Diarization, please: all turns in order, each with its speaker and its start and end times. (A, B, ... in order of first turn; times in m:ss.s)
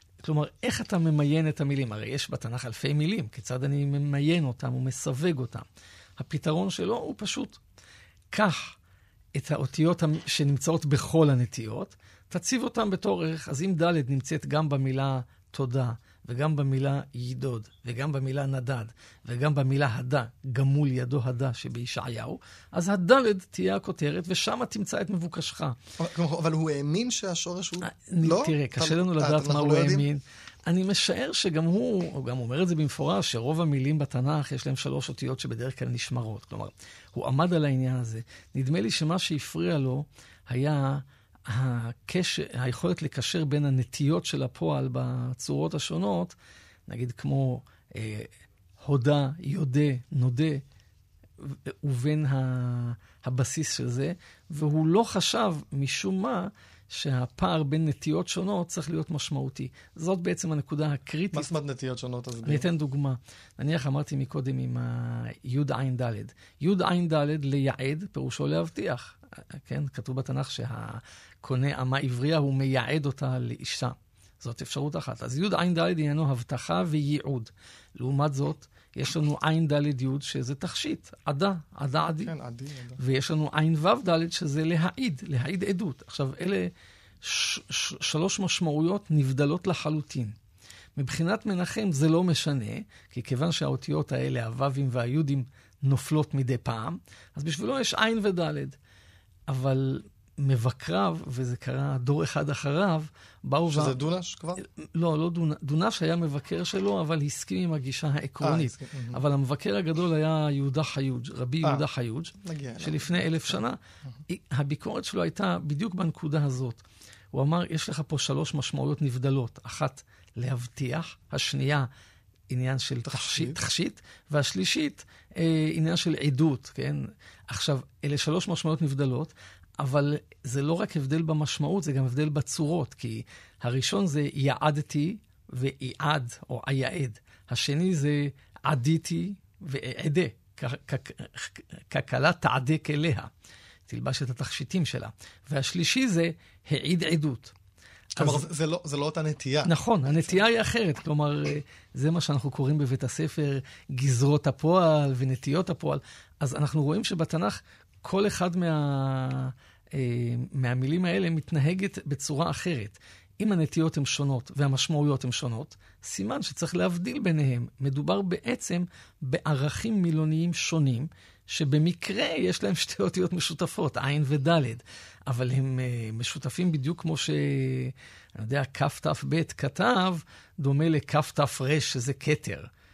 0:00.2-0:05.7 A
0:06.2-0:07.6 A
0:08.3-0:08.8 A
0:09.3-0:25.8 A
0:26.0-0:30.1 B
0:27.8-0:46.4 A
0:46.9-0:50.6 A
0:51.4-1:01.5 A
1:01.3-1:02.7 B
1:02.4-1:22.3 A
1:22.1-1:23.0 B
1:23.0-1:30.4 A
1:31.0-1:38.8 A
1:39.5-1:44.0 A
1:43.7-1:44.6 B
1:44.6-2:01.9 A
1:48.4-1:49.2 B
1:52.4-1:53.6 B
2:02.5-2:23.3 A
2:03.0-2:03.6 B
2:23.9-2:27.5 A
2:28.2-2:28.5 A
2:28.2-2:30.4 B
2:29.6-3:02.7 A